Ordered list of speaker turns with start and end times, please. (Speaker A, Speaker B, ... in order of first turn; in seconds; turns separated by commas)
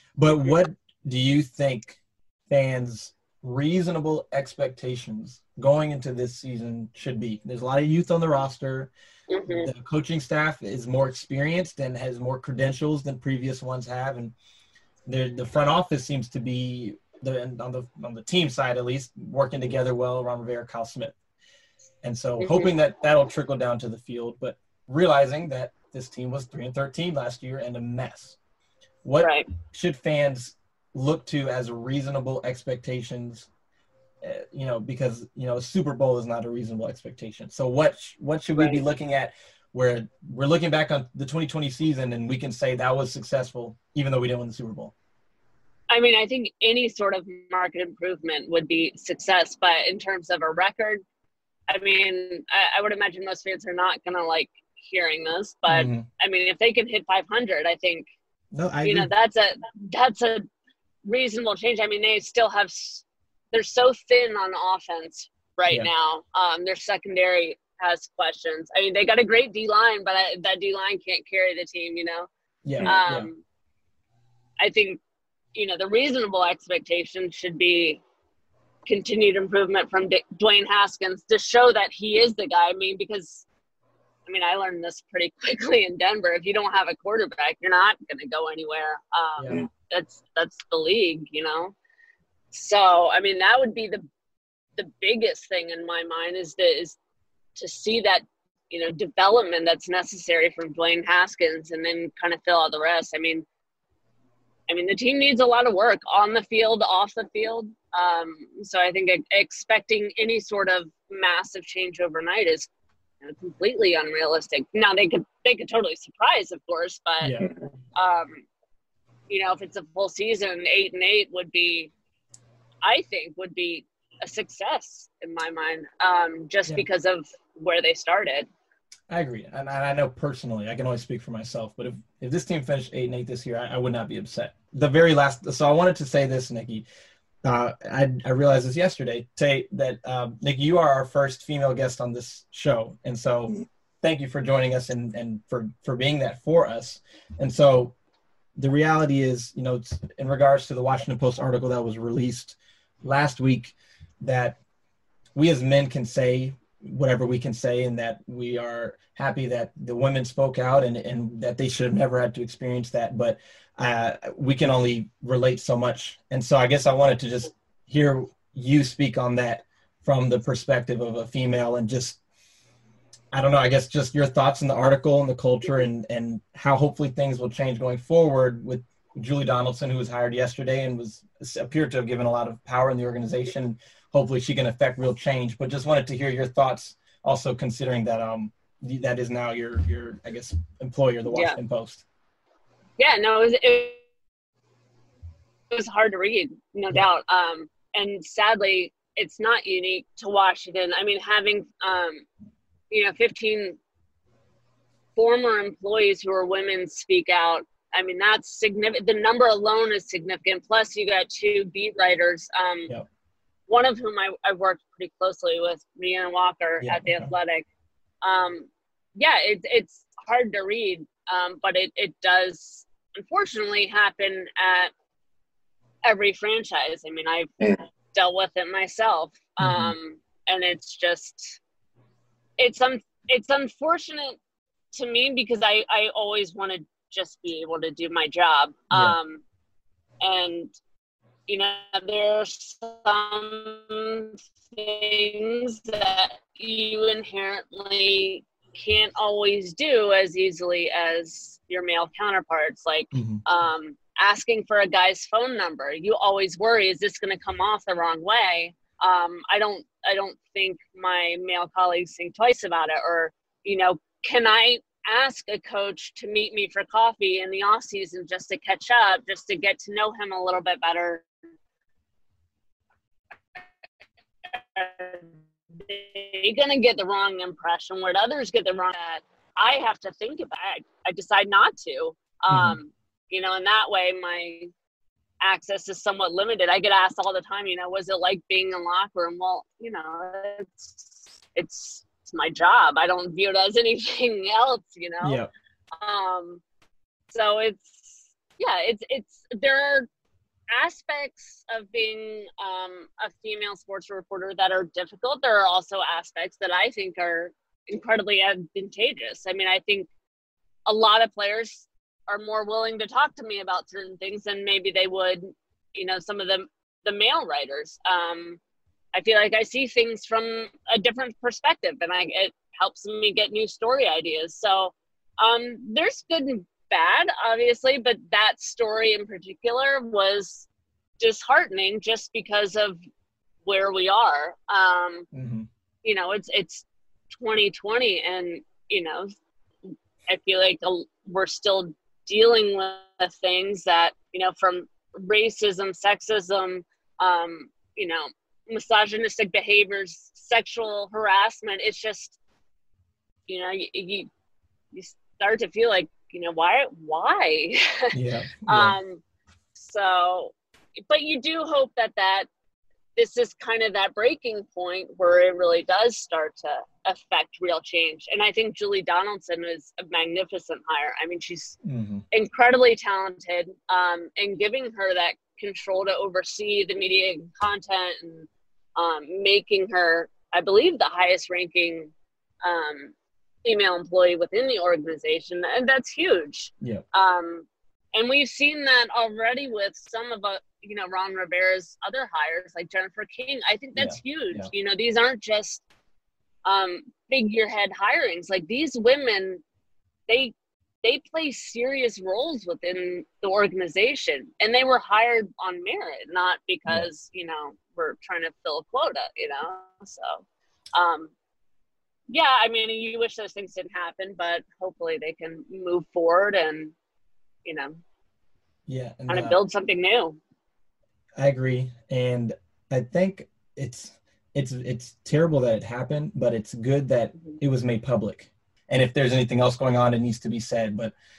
Speaker A: 0.2-8.9, Speaker B: 9.3-9.7, Speaker A: 9.5-14.3, Speaker A: 15.1-21.1, Speaker A: 22.0-28.4, Speaker B: 22.4-22.7, Speaker A: 29.0-33.5, Speaker B: 29.2-29.5, Speaker A: 34.2-44.9, Speaker B: 45.9-51.0, Speaker B: 51.7-58.1, Speaker A: 55.7-56.1, Speaker A: 58.5-59.1, Speaker B: 58.8-60.5, Speaker B: 61.0-72.3, Speaker A: 72.7-73.3, Speaker B: 72.8-73.4, Speaker B: 74.6-75.0, Speaker B: 75.5-78.0, Speaker B: 78.9-83.5, Speaker B: 84.3-91.7, Speaker A: 89.4-89.6, Speaker B: 92.5-94.0, Speaker B: 94.8-97.0, Speaker B: 97.6-103.5, Speaker B: 104.7-112.7, Speaker B: 113.2-117.3, Speaker A: 117.2-117.5, Speaker B: 118.0-118.4, Speaker B: 119.3-121.9, Speaker B: 122.8-128.5, Speaker A: 129.1-136.8, Speaker A: 137.4-147.9, Speaker A: 148.6-154.6, Speaker A: 155.3-172.2, Speaker A: 173.3-192.0, Speaker B: 191.3-191.6, Speaker B: 193.0-194.0, Speaker B: 195.7-202.3, Speaker B: 202.9-203.8, Speaker B: 205.2-212.9, Speaker B: 213.7-217.7, Speaker A: 216.8-217.3, Speaker B: 218.2-224.9, Speaker B: 226.0-227.5, Speaker B: 228.1-231.6, Speaker A: 229.6-229.9, Speaker B: 232.6-234.4, Speaker B: 234.9-239.4, Speaker A: 238.9-239.2, Speaker B: 240.2-240.7, Speaker B: 241.5-271.2, Speaker A: 253.1-253.4, Speaker B: 274.5-284.7, Speaker A: 282.5-282.8, Speaker B: 285.4-295.4, Speaker A: 295.2-295.5, Speaker B: 296.0-296.6, Speaker B: 297.3-300.1, Speaker B: 300.7-310.1, Speaker B: 310.9-318.6, Speaker B: 319.1-330.7, Speaker B: 331.2-333.0, Speaker B: 333.6-335.3, Speaker A: 335.3-335.7, Speaker B: 336.0-339.3, Speaker B: 340.3-352.4, Speaker B: 353.5-354.3, Speaker B: 354.9-358.1, Speaker A: 358.1-359.0, Speaker B: 358.7-359.2, Speaker B: 359.8-362.5, Speaker B: 363.2-371.8, Speaker A: 371.9-372.2, Speaker B: 372.3-382.1, Speaker B: 382.6-383.1, Speaker B: 383.6-395.8, Speaker A: 393.9-394.7, Speaker B: 396.6-399.6, Speaker B: 400.3-410.4, Speaker B: 410.9-411.3, Speaker B: 412.3-416.9, Speaker B: 417.6-418.0, Speaker A: 418.9-419.6, Speaker B: 419.3-420.4, Speaker A: 421.4-431.1